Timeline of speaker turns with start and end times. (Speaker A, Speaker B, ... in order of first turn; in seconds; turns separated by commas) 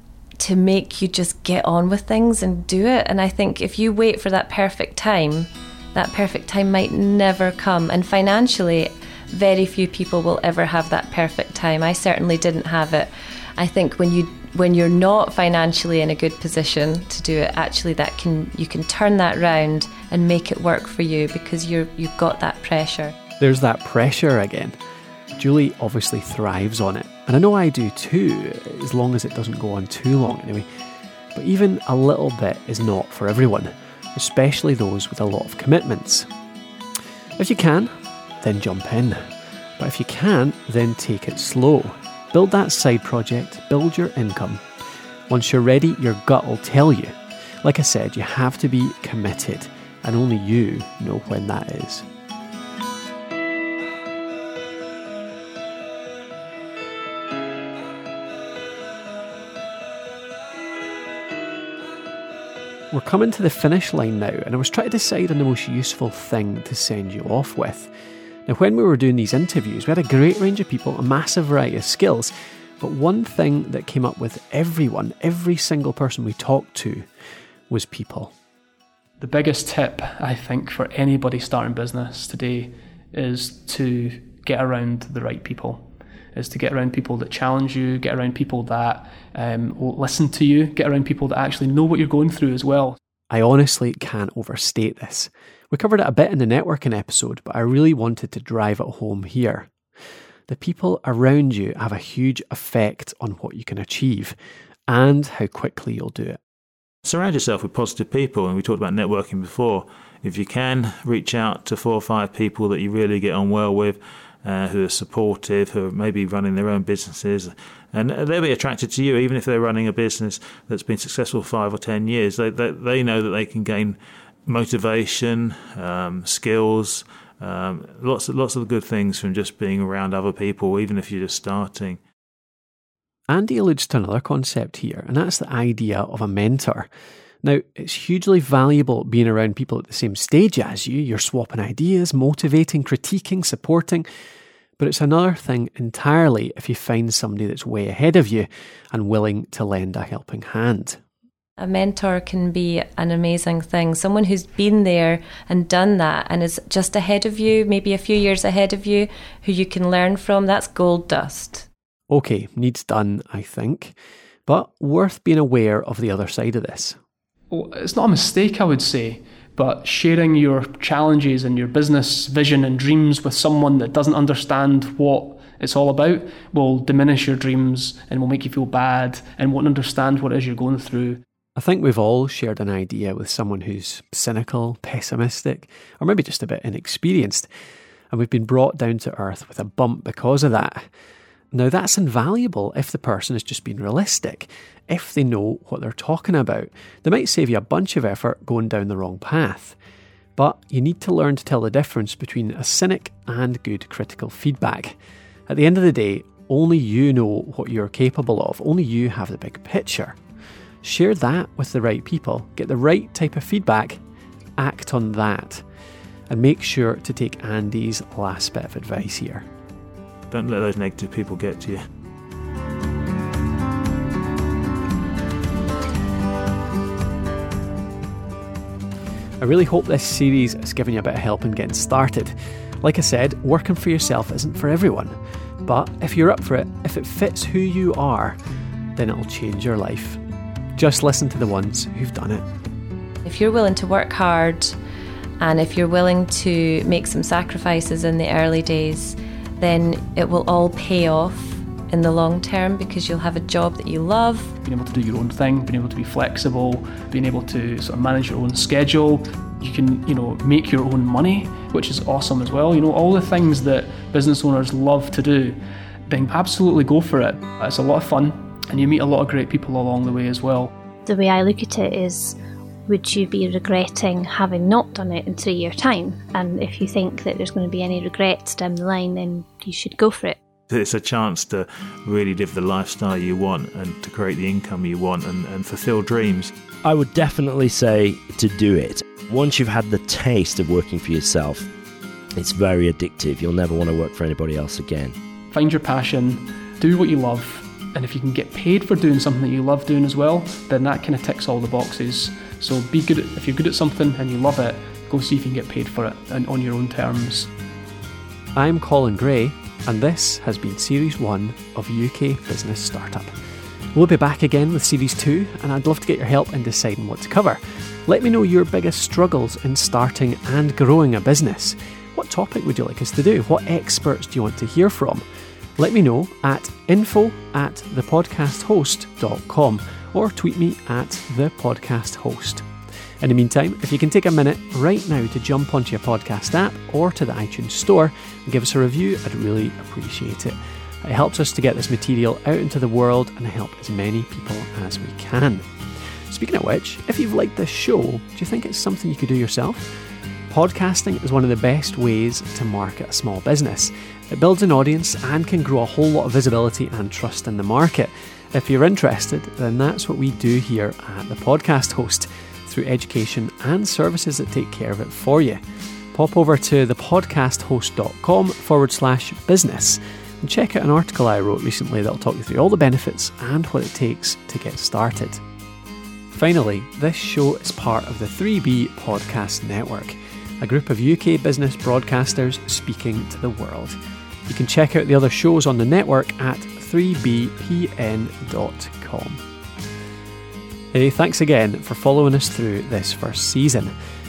Speaker A: 0.4-23.1, Speaker B: 23.4-24.8, Speaker B: 25.4-30.6, Speaker B: 31.3-36.3, Speaker B: 37.4-39.2, Speaker B: 39.8-44.6, Speaker B: 45.3-52.0, Speaker B: 62.9-67.9, Speaker B: 68.5-77.0, Speaker B: 77.7-78.3, Speaker C: 79.2-93.0, Speaker B: 93.3-99.7, Speaker B: 100.5-104.3, Speaker B: 104.9-106.4, Speaker D: 107.0-132.0, Speaker B: 133.3-136.9, Speaker B: 137.4-144.1, Speaker B: 144.8-151.0, Speaker A: 151.6-161.7, Speaker B: 162.1-163.9, Speaker B: 164.5-167.0, Speaker C: 167.5-181.2, Speaker B: 181.6-187.5, Speaker B: 188.1-190.8, Speaker B: 191.5-199.8, Speaker B: 200.4-210.2, Speaker B: 210.8-214.0, Speaker B: 214.6-215.6, Speaker B: 216.3-219.4, Speaker D: 220.3-221.8, Speaker B: 229.4-238.4, Speaker B: 238.9-240.2, Speaker B: 240.8-242.4, Speaker A: 243.2-244.7, Speaker A: 245.4-254.5, Speaker C: 254.6-270.7, Speaker E: 271.1-280.4, Speaker D: 280.7-286.5, Speaker F: 286.8-291.7, Speaker F: 292.4-295.1, Speaker C: 295.5-307.5, Speaker B: 308.6-313.3, Speaker B: 313.9-325.2, Speaker B: 325.8-332.6, Speaker B: 333.2-345.6, Speaker B: 346.3-349.9, Speaker B: 350.5-365.6, Speaker B: 366.1-375.4, Speaker B: 376.3-389.4, Speaker B: 390.9-393.9